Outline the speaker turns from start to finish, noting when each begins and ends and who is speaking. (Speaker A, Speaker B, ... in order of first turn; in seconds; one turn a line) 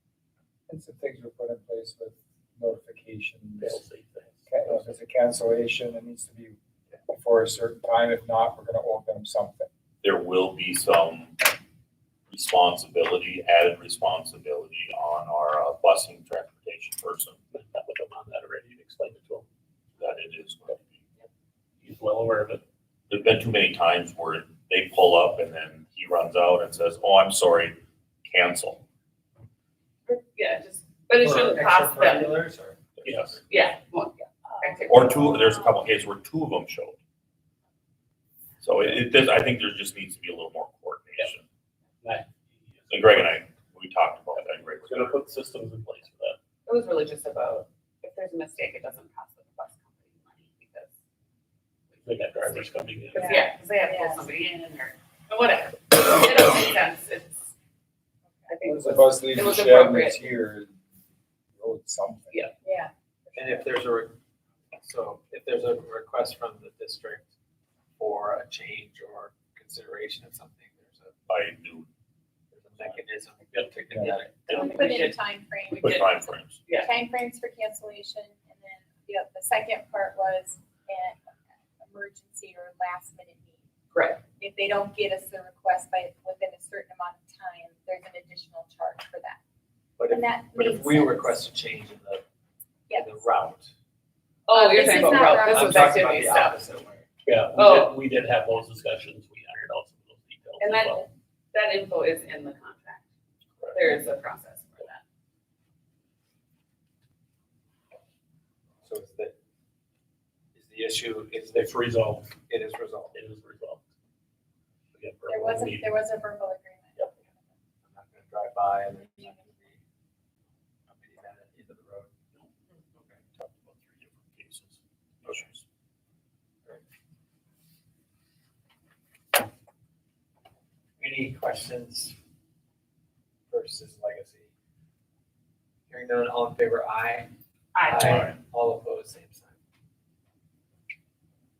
Speaker A: 0.7-3.8
Speaker B: 3.6-4.9
Speaker A: 4.5-9.7
Speaker C: 10.0-11.5
Speaker C: 12.3-17.4
Speaker B: 17.5-19.4
Speaker C: 20.0-21.0
Speaker B: 21.8-22.6
Speaker C: 23.1-28.8
Speaker D: 30.1-32.4
Speaker E: 31.2-32.8
Speaker C: 32.9-33.4
Speaker B: 33.0-33.4
Speaker D: 33.5-35.3
Speaker F: 34.6-35.8
Speaker C: 34.9-37.0
Speaker C: 38.6-41.4
Speaker B: 42.0-43.4
Speaker C: 42.9-45.2
Speaker B: 44.3-46.4
Speaker D: 46.6-50.9
Speaker D: 51.9-57.4
Speaker B: 52.0-53.4
Speaker F: 53.1-54.3
Speaker D: 58.5-60.3
Speaker A: 58.6-60.8
Speaker A: 61.5-62.4
Speaker F: 62.6-62.9
Speaker A: 63.3-63.7
Speaker E: 63.4-64.2
Speaker E: 64.8-67.2
Speaker E: 68.0-71.1
Speaker C: 71.3-71.9
Speaker E: 72.5-74.4
Speaker B: 73.5-75.1
Speaker F: 74.4-83.7
Speaker D: 75.7-76.1
Speaker C: 75.7-76.7
Speaker D: 76.6-76.9
Speaker D: 83.9-84.2
Speaker F: 84.2-89.4
Speaker E: 90.0-92.2
Speaker F: 90.1-91.4
Speaker F: 92.9-93.2
Speaker E: 92.9-93.7
Speaker D: 94.5-96.6
Speaker F: 94.5-95.7
Speaker E: 95.0-97.0
Speaker B: 97.2-101.0
Speaker D: 97.5-98.0
Speaker D: 100.6-103.0
Speaker B: 103.6-103.9
Speaker D: 103.7-105.0
Speaker E: 108.8-109.3
Speaker E: 110.5-111.7
Speaker B: 111.5-112.3
Speaker E: 112.5-113.2
Speaker B: 113.1-113.8
Speaker B: 114.9-116.0
Speaker F: 115.3-117.6
Speaker E: 117.8-119.8
Speaker F: 119.0-119.5
Speaker E: 120.9-122.1
Speaker C: 123.3-125.6
Speaker E: 131.0-132.2
Speaker E: 133.5-134.5
Speaker E: 135.9-137.3
Speaker D: 137.7-138.2
Speaker E: 137.8-139.6
Speaker C: 138.0-138.4